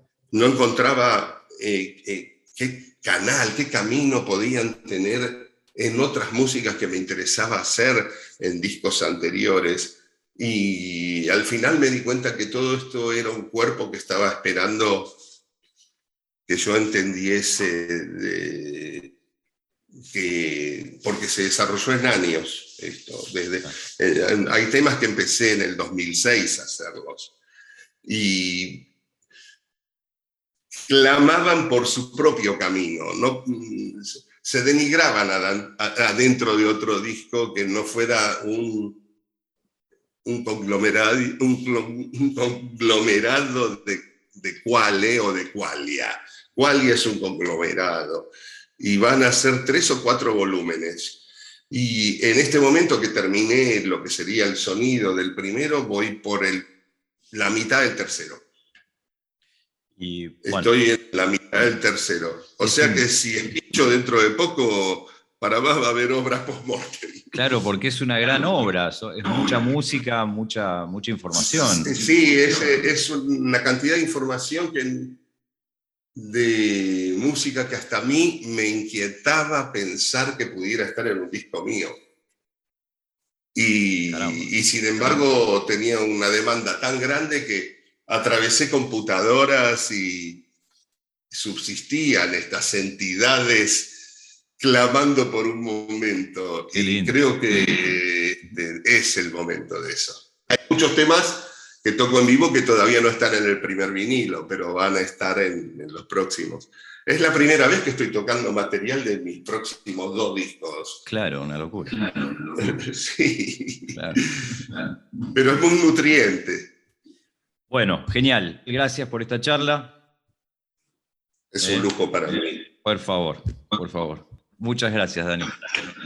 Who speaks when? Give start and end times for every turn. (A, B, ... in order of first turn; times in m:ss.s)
0:00.3-0:15.2 A
0:16.5-0:19.1 A
0:20.1-0:27.3 A
0:28.0-0:28.9 A
0:30.9-0:39.0 A
0:40.2-0:56.7 A
0:57.3-0:58.5 A
1:00.0-1:00.7 B
1:00.4-1:07.4 A
1:02.6-1:03.0 B
1:07.3-1:12.0 B
1:11.4-1:15.2 A
1:16.2-1:22.0 A
1:23.5-1:30.4 A
1:24.1-1:25.2 B
1:31.3-1:34.1 A
1:34.6-1:51.0 A
1:36.7-1:37.8 B
1:51.1-1:52.0 B
1:52.0-1:54.0 A
1:53.9-1:54.2 B
1:55.3-1:56.7 A
1:57.7-2:00.0 B
2:01.5-2:02.6 A
2:01.6-2:01.9 B
2:02.6-2:05.7 B